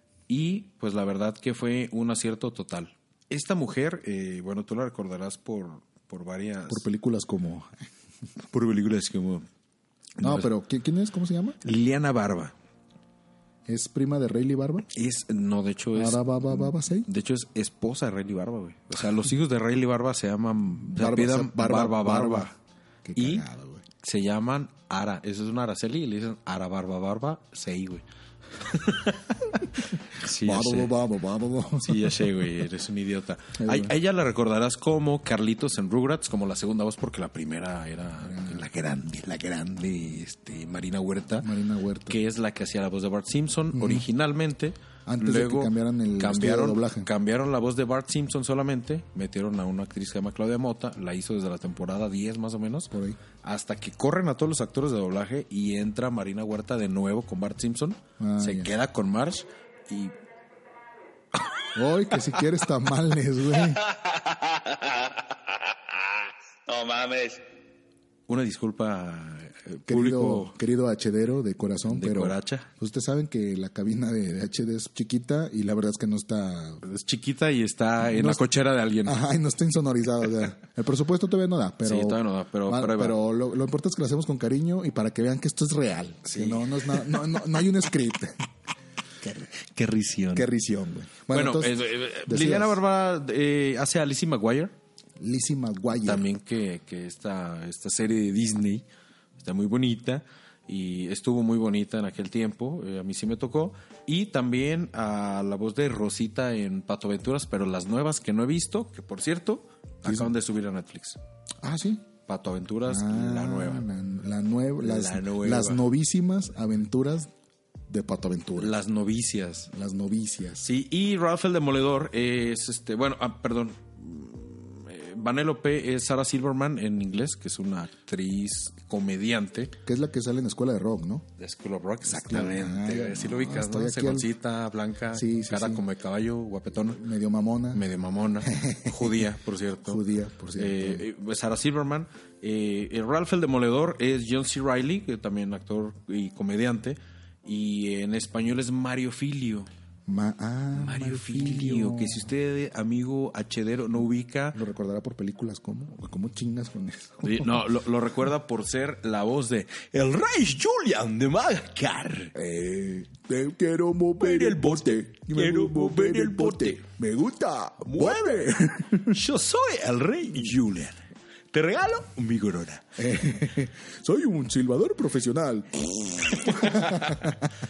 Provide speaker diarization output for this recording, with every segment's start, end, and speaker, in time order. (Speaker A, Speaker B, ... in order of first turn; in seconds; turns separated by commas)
Speaker A: 0.3-6.8, Speaker B: 6.7-7.7, Speaker A: 8.5-9.5, Speaker A: 10.2-10.5, Speaker B: 10.2-11.6, Speaker A: 11.6-12.5, Speaker B: 13.7-14.8, Speaker A: 14.9-22.5, Speaker B: 15.9-17.1, Speaker B: 20.9-22.5, Speaker B: 23.0-23.8, Speaker A: 23.2-23.4, Speaker A: 24.0-28.0, Speaker A: 28.6-30.9, Speaker B: 30.4-32.3, Speaker A: 31.8-41.5, Speaker B: 33.6-33.9, Speaker B: 38.2-38.7, Speaker B: 41.4-42.2, Speaker A: 42.1-52.9, Speaker B: 43.7-44.0, Speaker B: 45.0-47.1, Speaker B: 52.9-53.2, Speaker A: 53.4-60.1, Speaker B: 58.2-58.7, Speaker B: 61.7-63.8, Speaker C: 63.6-67.4, Speaker A: 68.3-70.5, Speaker B: 69.9-76.8, Speaker A: 71.8-72.7, Speaker A: 76.8-79.2, Speaker B: 78.0-78.4, Speaker B: 79.0-88.3, Speaker A: 81.8-83.2, Speaker A: 86.2-87.2, Speaker A: 89.2-90.5, Speaker B: 90.3-92.8, Speaker A: 91.3-94.7, Speaker B: 95.2-96.2, Speaker A: 96.0-98.8, Speaker A: 99.4-111.2, Speaker B: 110.0-110.3, Speaker B: 111.6-112.0, Speaker A: 112.3-113.9, Speaker B: 112.8-117.3, Speaker A: 114.8-115.8, Speaker B: 117.9-118.7, Speaker A: 118.6-119.7, Speaker B: 119.7-120.7, Speaker A: 120.6-129.7, Speaker B: 129.8-131.2, Speaker A: 131.4-137.0, Speaker B: 132.1-134.3, Speaker B: 135.1-135.8, Speaker B: 136.7-137.8, Speaker A: 137.7-140.0, Speaker B: 138.4-139.2, Speaker B: 139.8-141.1, Speaker A: 140.6-149.7, Speaker B: 150.1-152.3, Speaker A: 150.7-154.6, Speaker B: 154.5-157.6, Speaker A: 157.2-162.3, Speaker B: 162.3-169.2, Speaker A: 164.2-166.8, Speaker A: 167.8-173.0, Speaker B: 173.0-177.5, Speaker A: 176.4-177.3